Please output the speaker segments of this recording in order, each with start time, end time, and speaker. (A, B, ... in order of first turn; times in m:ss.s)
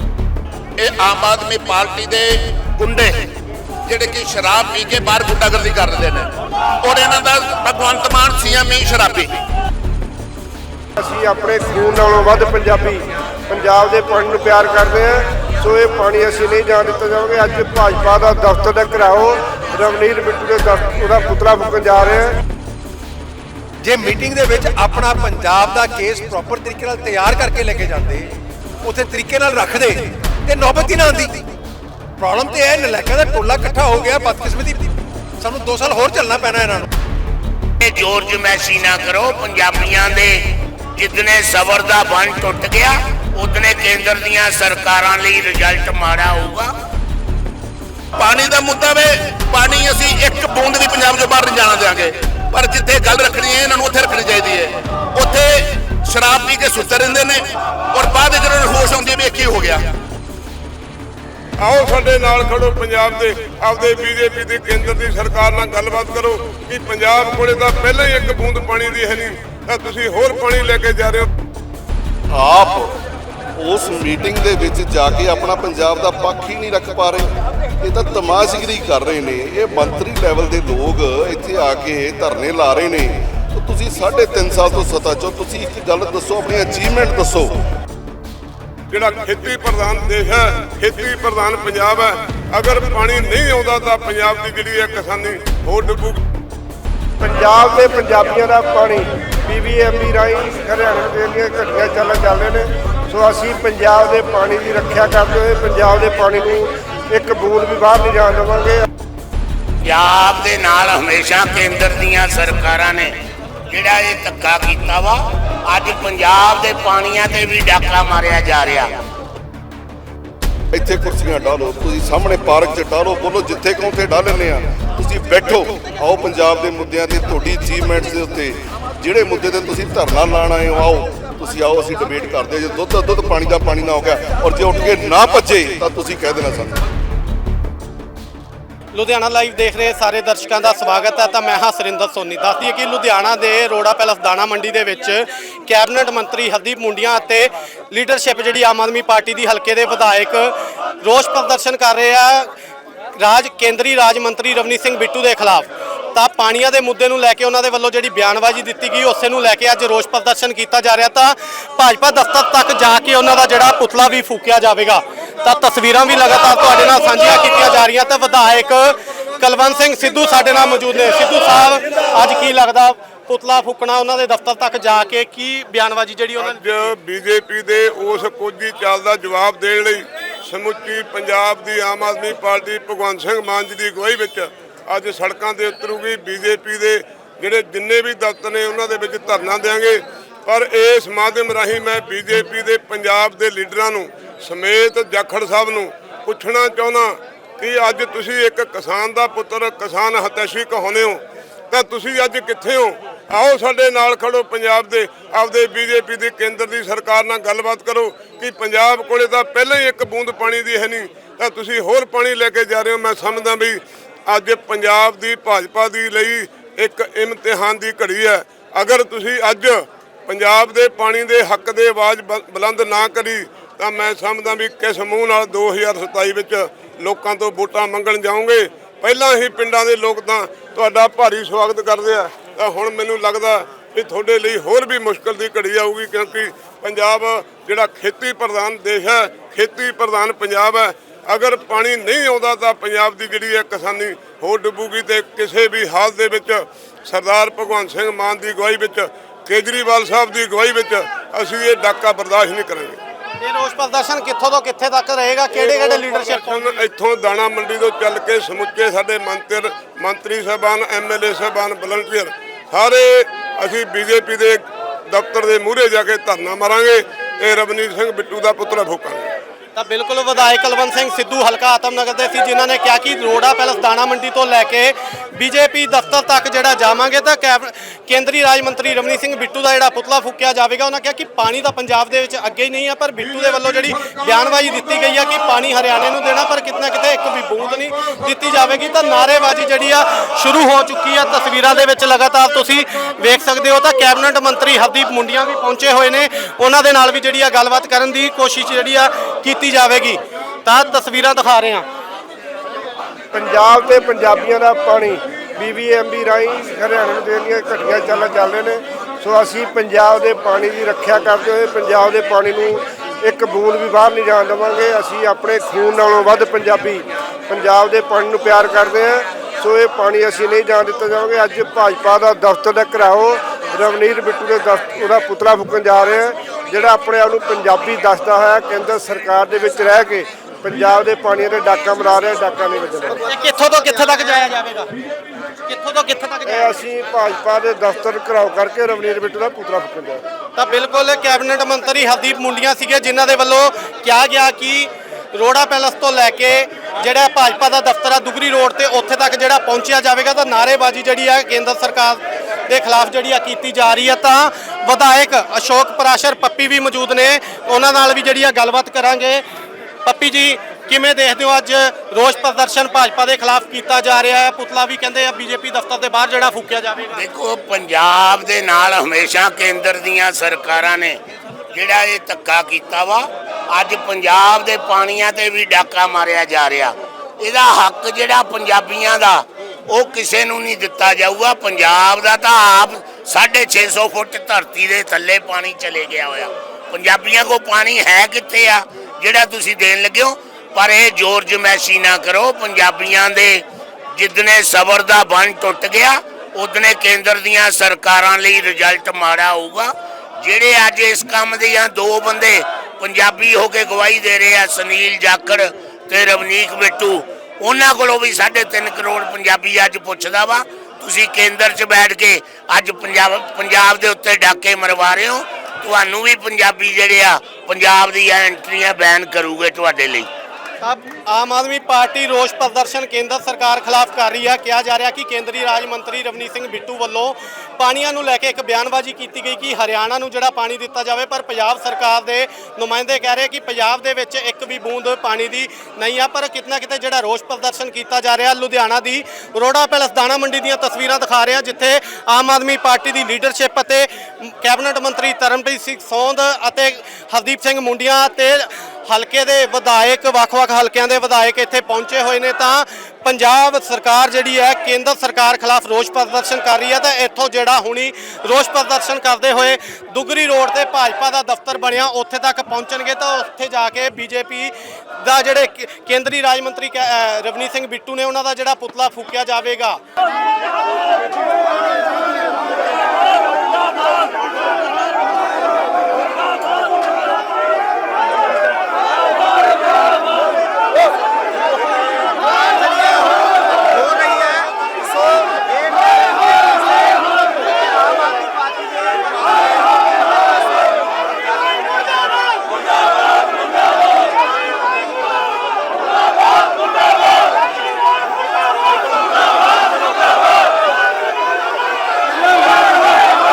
0:00.8-0:03.2 A
0:03.8-0:09.3 A
0:11.0-0:22.4 B
0:23.8-0:31.5 C
0:32.2-0:34.8 C
0:35.4-0:36.9 C
0:37.8-0:40.4 D
0:41.0-0:46.7 D
0:48.2-0:59.9 A
1:01.6-1:11.3 E
1:12.3-1:12.9 F
1:13.6-1:17.3 F
1:17.8-1:27.6 F
1:28.9-1:36.2 E
1:37.2-1:48.8 B
1:49.8-1:53.1 D
1:53.7-1:59.0 D
2:00.7-2:16.8 F
2:18.9-2:32.5 G
2:33.2-2:56.7 G
2:56.4-4:13.0 E
4:13.4-4:16.8 G
4:15.5-4:29.3 E
4:29.7-5:01.8 G
5:03.3-5:33.2 B
5:33.1-5:34.9 G
5:35.7-5:36.8 G
5:36.4-5:40.2 B
5:40.6-5:59.4 G
6:00.0-6:07.2 G
6:07.1-6:11.2 D
6:11.7-6:33.6 D
6:34.1-6:39.9 D
6:40.4-7:00.3 D
7:00.8-7:50.0 G